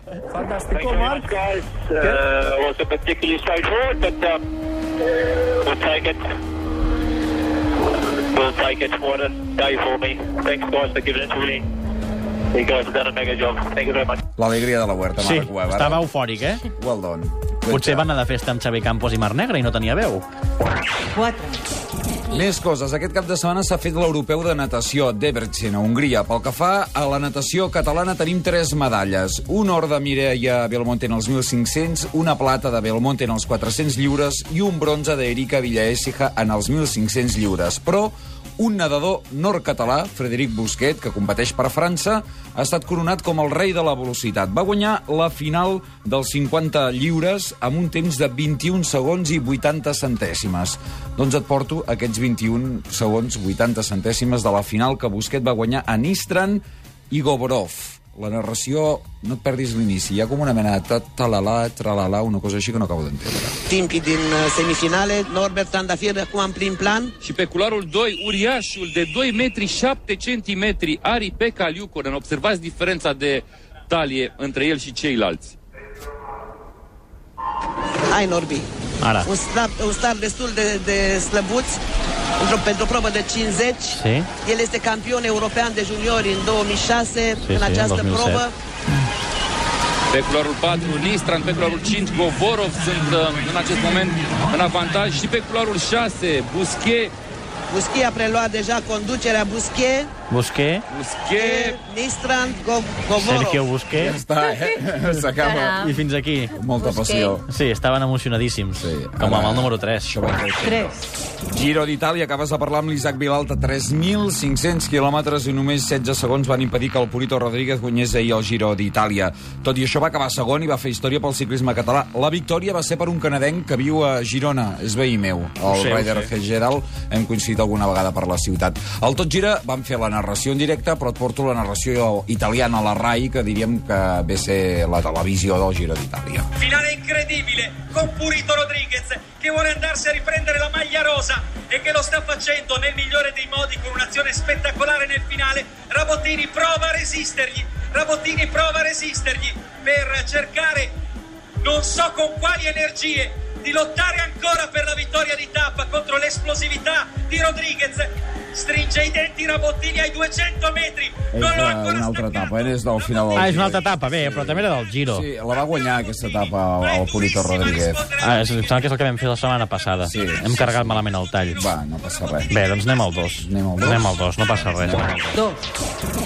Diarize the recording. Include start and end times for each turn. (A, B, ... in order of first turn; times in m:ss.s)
0:00.7-0:04.4 A
0:05.6-0:06.2 A
0:08.3-0:11.6 A
0:12.6-0:14.2 A
0:14.4-0:16.0 B
0:15.2-0:16.6 C
0:16.8-0:18.1 B
0:17.7-0:20.3 C
0:22.3-1:03.6 B
1:03.7-1:07.1 D
1:07.2-1:15.6 E
1:18.1-1:18.7 D
1:19.0-1:19.3 C
1:19.2-1:21.8 D
1:22.4-1:28.5 D
1:23.9-1:24.3 C
1:27.4-1:28.5 C
1:30.1-1:37.1 E
1:37.7-1:40.1 D
1:40.3-1:40.8 C
1:40.9-1:41.8 E
1:41.4-1:43.7 D
1:43.2-1:44.2 C
1:44.0-1:46.0 B
1:45.4-1:46.0 D
1:45.7-1:46.6 C
1:46.5-1:47.4 B
1:46.8-1:47.4 D
1:47.4-1:50.1 C
1:48.8-2:16.5 B
2:05.7-2:06.3 C
2:16.6-2:31.0 F
2:31.6-2:42.6 F
2:41.3-2:48.0 B
2:43.4-2:45.3 C
2:46.2-2:48.8 F
2:48.2-2:51.7 C
2:50.0-2:52.6 B
2:52.5-2:55.5 C
2:52.5-2:52.9 F
2:53.4-2:55.2 B